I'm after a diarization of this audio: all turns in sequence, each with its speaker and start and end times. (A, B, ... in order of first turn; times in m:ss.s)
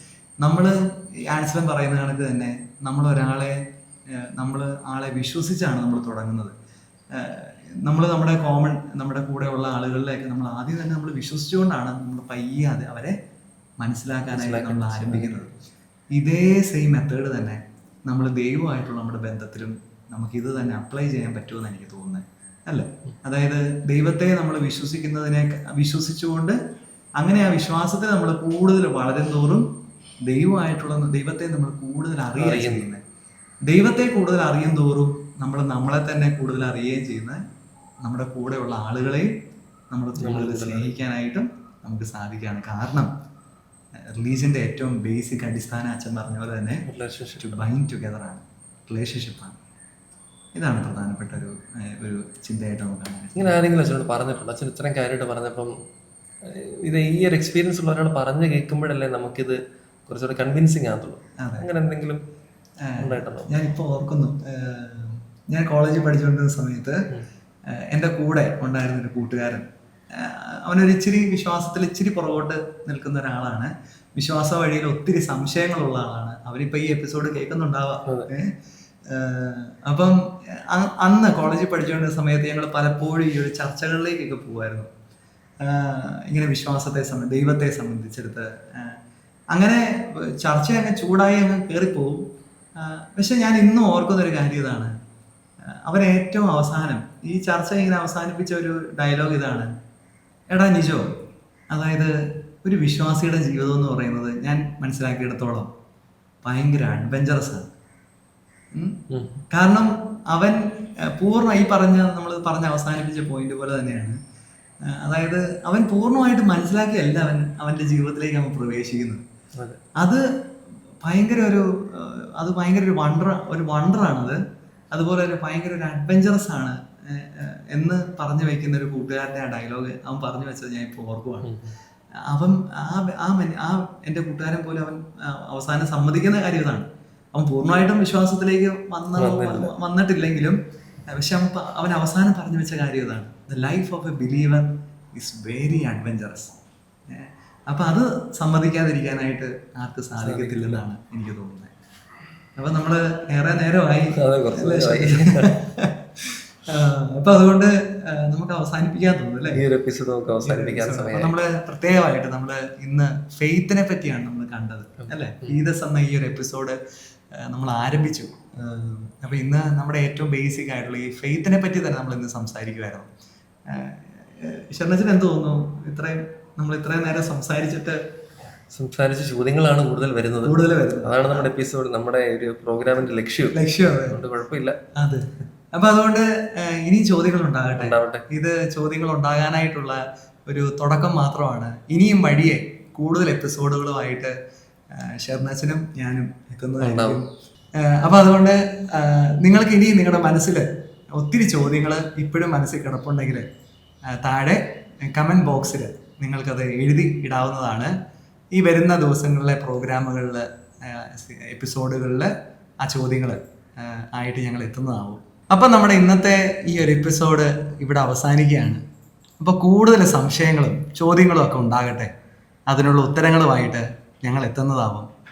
0:00.4-0:06.5 A
0:07.1-0:13.2 A
0:13.8-0:15.5 A
0:14.3-0:15.5 B
0:16.1-0:26.6 A
0:27.2-0:29.7 A
0:30.2-0:33.0 A
0:32.4-0:32.9 B
0:33.7-0:37.4 A
0:38.0-0:39.3 A
0:39.9-0:43.1 A
0:40.2-0:40.9 B
0:44.0-0:46.9 A
0:46.8-0:47.6 B
0:47.4-0:49.6 A
0:50.6-0:53.6 A
0:53.4-0:55.7 B
0:56.4-1:02.2 B
1:01.4-1:01.7 A
1:02.8-1:07.0 A
1:03.0-1:03.5 B
1:07.7-1:18.5 A
1:19.1-1:24.9 A
1:25.6-1:29.0 A
1:29.5-1:34.9 A
1:35.7-1:39.7 A
1:40.5-1:41.1 A
1:41.7-1:45.7 A
1:46.4-1:47.7 A
1:48.7-1:49.0 A
1:49.1-1:49.4 B
1:49.5-1:54.2 A
1:54.8-1:59.2 A
1:59.6-1:59.8 B
2:00.0-2:00.2 A
2:01.0-2:04.4 A
2:04.9-2:11.5 A
2:11.4-2:11.7 B
2:12.2-2:26.5 A
2:19.2-2:19.7 B
2:27.1-2:31.7 A
2:30.2-2:30.8 B
2:32.6-2:39.6 A
2:34.2-2:35.6 B
2:39.5-2:41.3 B
2:40.4-2:46.8 A
2:47.3-2:53.1 A
2:53.7-2:58.0 A
2:58.7-3:04.8 B
3:00.4-3:01.5 A
3:03.5-3:04.2 A
3:05.0-3:14.3 A
3:07.8-3:08.2 B
3:14.9-3:17.3 A
3:16.8-3:17.2 B
3:17.8-3:23.5 A
3:24.1-3:27.9 A
3:28.5-3:32.3 A
3:32.8-3:38.8 A
3:39.4-3:42.1 A
3:42.7-3:45.1 A